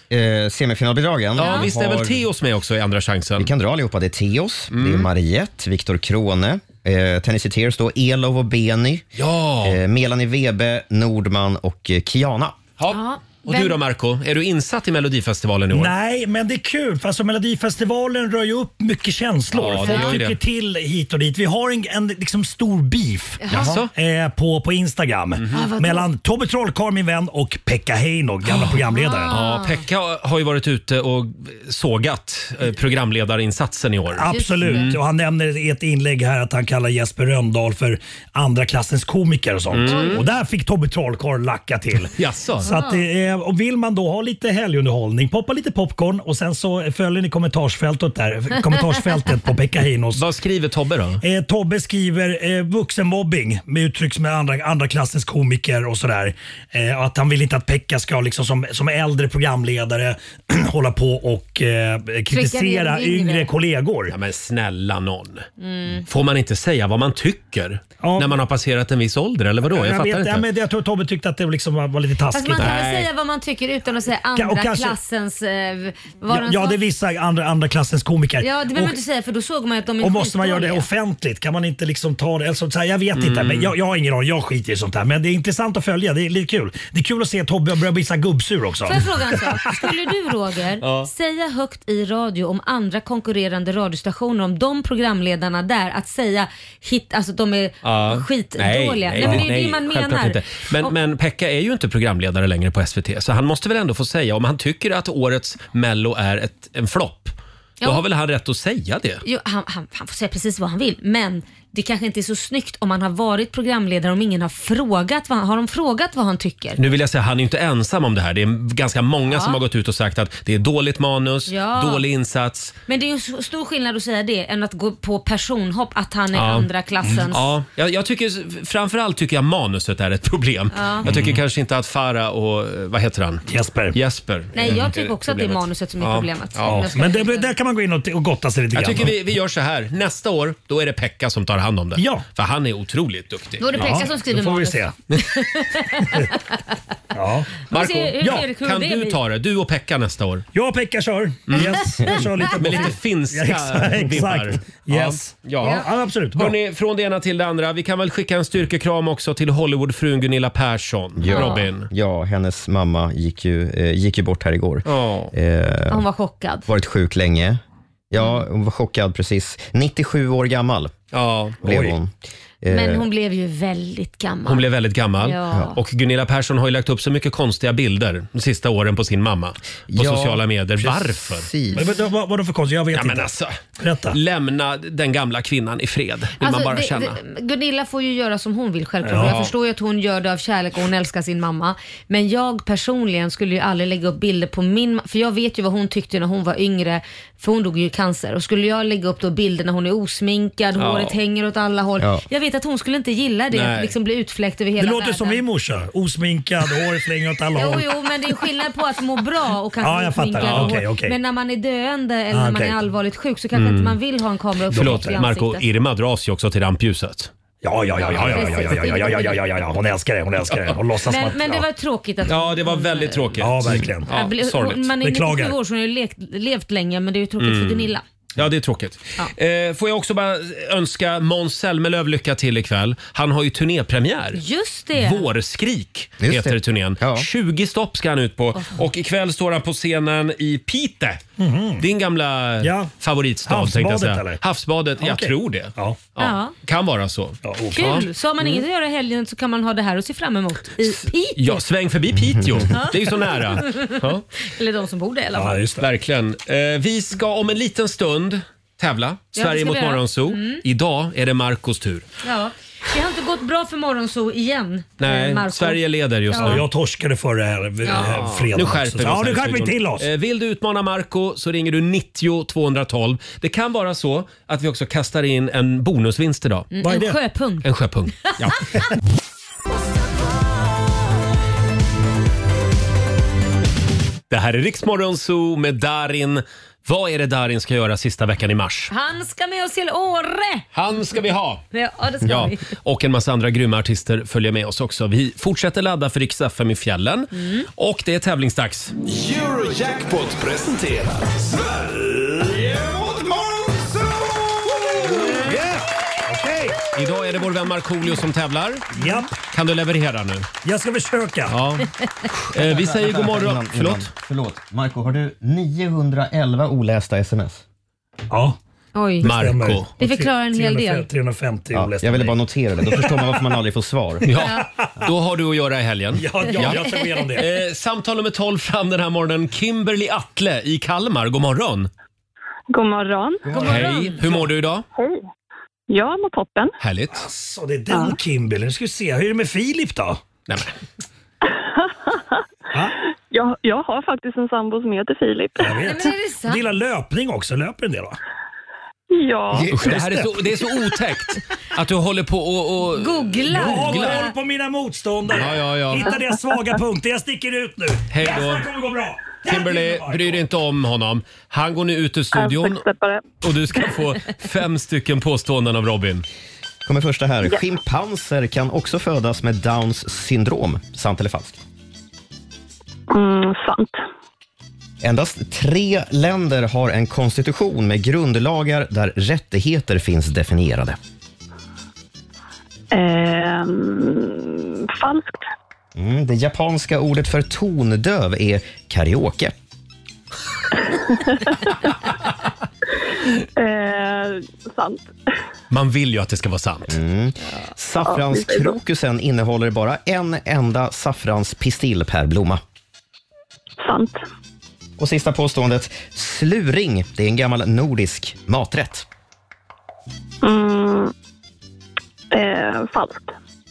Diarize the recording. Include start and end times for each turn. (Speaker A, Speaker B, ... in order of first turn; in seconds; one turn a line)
Speaker A: 0.1-2.2
Speaker B: 1.4-3.5
Speaker C: 1.4-1.7
Speaker A: 3.4-9.0
Speaker B: 4.7-5.1
Speaker B: 9.2-9.8
Speaker A: 9.6-12.6
Speaker B: 12.8-15.9
Speaker C: 12.9-13.8
Speaker D: 15.7-29.3
Speaker B: 19.5-20.4
Speaker C: 19.8-20.1
Speaker C: 23.4-23.7
Speaker B: 23.5-23.9
Speaker B: 25.4-25.6
Speaker C: 25.5-26.1
Speaker B: 28.5-28.7
Speaker C: 28.9-29.8
Speaker B: 29.3-35.0
Speaker D: 34.1-42.1
Speaker C: 34.3-35.0
Speaker B: 39.7-40.2
Speaker C: 39.9-40.2
Speaker B: 42.1-42.7
Speaker C: 42.6-43.0
Speaker D: 42.6-50.2
Speaker B: 50.1-51.2
Speaker D: 51.2-64.1
Speaker C: 62.3-63.5
Speaker B: 64.1-65.5
Speaker C: 65.6-66.0
Speaker B: 66.1-70.5
Speaker D: 68.0-68.3
Speaker D: 69.6-72.7
Speaker C: 72.3-76.8
Speaker B: 72.6-73.1
Speaker D: 74.3-75.0
Speaker D: 76.3-79.0
Speaker C: 78.4-80.8
Speaker D: 80.0-89.8
Speaker B: 83.2-83.7
Speaker C: 88.8-100.9
Speaker B: 90.8-91.1
Speaker B: 97.8-109.2
Speaker C: 109.2-116.8
Speaker B: 116.8-122.8
Speaker C: 119.3-119.6
Speaker C: 121.5-122.0
Speaker C: 122.9-127.5
Speaker B: 126.3-136.9
Speaker C: 130.7-131.1
Speaker D: 131.1-131.4
Speaker D: 133.5-134.0
Speaker C: 134.5-137.5
Speaker D: 136.6-139.1
Speaker B: 138.7-144.0
Speaker D: 142.0-142.2
Speaker C: 143.6-146.6
Speaker D: 143.8-144.9
Speaker D: 147.1-147.7
Speaker C: 147.7-149.2
Speaker B: 147.7-150.4
Speaker D: 148.2-148.5
Speaker D: 150.5-156.5
Speaker B: 151.5-151.8
Speaker B: 152.5-161.9
Speaker A: 161.2-166.0
Speaker C: 161.3-161.7
Speaker B: 164.8-165.3
Speaker C: 165.9-166.7
Speaker A: 166.7-167.6
Speaker A: 168.1-170.9
Speaker C: 168.2-168.4
Speaker B: 171.1-171.6
Speaker A: 171.6-173.1
Speaker D: 171.6-171.9
Speaker C: 172.7-174.6
Speaker B: 174.4-181.5
Speaker C: 175.2-175.8
Speaker A: 179.9-181.9
Speaker D: 181.8-184.2
Speaker B: 182.9-183.6
Speaker B: 184.1-187.2
Speaker C: 186.4-205.4
Speaker D: 189.0-189.3
Speaker B: 189.1-189.5
Speaker B: 200.8-201.2
Speaker B: 203.5-203.9
Speaker D: 204.8-208.0
Speaker C: 207.5-215.6
Speaker D: 209.8-211.2
Speaker B: 210.4-210.8
Speaker D: 212.3-212.8
Speaker B: 213.5-214.0
Speaker D: 214.7-215.2
Speaker B: 214.7-217.3
Speaker D: 217.6-221.7
Speaker C: 218.0-219.4
Speaker B: 218.1-218.8
Speaker C: 221.1-223.4
Speaker B: 222.2-224.9
Speaker D: 223.4-224.1
Speaker C: 224.0-228.0
Speaker D: 225.0-225.6
Speaker B: 227.4-234.4
Speaker C: 234.3-235.3
Speaker B: 234.9-241.2
Speaker A: 236.2-237.3
Speaker D: 241.4-241.8
Speaker B: 241.8-248.1
Speaker D: 242.6-242.9
Speaker D: 243.4-244.4
Speaker D: 245.0-246.0
Speaker C: 246.2-246.5
Speaker D: 247.4-248.0
Speaker C: 247.7-251.6
Speaker B: 251.3-254.2
Speaker C: 252.7-255.6
Speaker D: 255.3-255.8
Speaker B: 255.8-262.1
Speaker C: 259.3-260.6
Speaker C: 262.2-266.6
Speaker B: 265.0-266.6
Speaker D: 266.4-270.1
Speaker C: 267.8-268.1
Speaker B: 267.9-276.7
Speaker C: 276.7-277.6
Speaker D: 276.8-277.2
Speaker B: 277.6-278.6
Speaker B: 284.3-288.9
Speaker C: 288.9-290.6
Speaker B: 290.7-291.6
Speaker C: 291.7-292.7
Speaker B: 292.2-298.9
Speaker C: 297.3-297.6
Speaker E: 299.0-305.3
Speaker B: 305.0-305.6
Speaker D: 305.2-306.8
Speaker B: 306.9-308.9
Speaker D: 308.9-309.3
Speaker C: 309.0-309.3
Speaker B: 309.5-310.5
Speaker D: 310.6-311.6
Speaker B: 311.5-314.1
Speaker A: 312.5-317.6
Speaker D: 318.3-318.6
Speaker C: 318.9-319.3
Speaker D: 319.2-323.4
Speaker B: 319.2-319.9
Speaker C: 320.0-321.1
Speaker A: 321.7-324.3
Speaker B: 324.2-331.9
Speaker D: 324.4-325.1
Speaker D: 326.1-327.5
Speaker F: 332.7-333.4
Speaker D: 333.4-334.5
Speaker B: 333.5-334.9
Speaker F: 334.9-335.2
Speaker F: 335.9-336.7
Speaker B: 336.8-337.2
Speaker D: 337.1-340.2
Speaker D: 342.7-343.0
Speaker F: 343.3-345.7
Speaker D: 345.6-348.2
Speaker C: 345.8-346.6
Speaker F: 349.1-349.7
Speaker D: 349.5-350.4
Speaker B: 349.7-354.3
Speaker C: 352.9-354.3
Speaker D: 353.4-360.4
Speaker B: 355.3-356.1
Speaker B: 358.1-358.7
Speaker B: 359.4-362.9
Speaker F: 362.4-363.2
Speaker B: 363.4-366.2
Speaker A: 366.8-371.6
Speaker F: 373.1-374.0
Speaker A: 375.0-381.0
Speaker F: 382.9-385.4
Speaker A: 385.9-389.5
Speaker F: 393.6-395.1
Speaker B: 395.7-397.0
Speaker A: 396.9-402.6
Speaker F: 398.0-398.7
Speaker F: 403.8-404.2
Speaker A: 405.0-409.1
Speaker F: 410.4-411.1
Speaker F: 412.3-413.3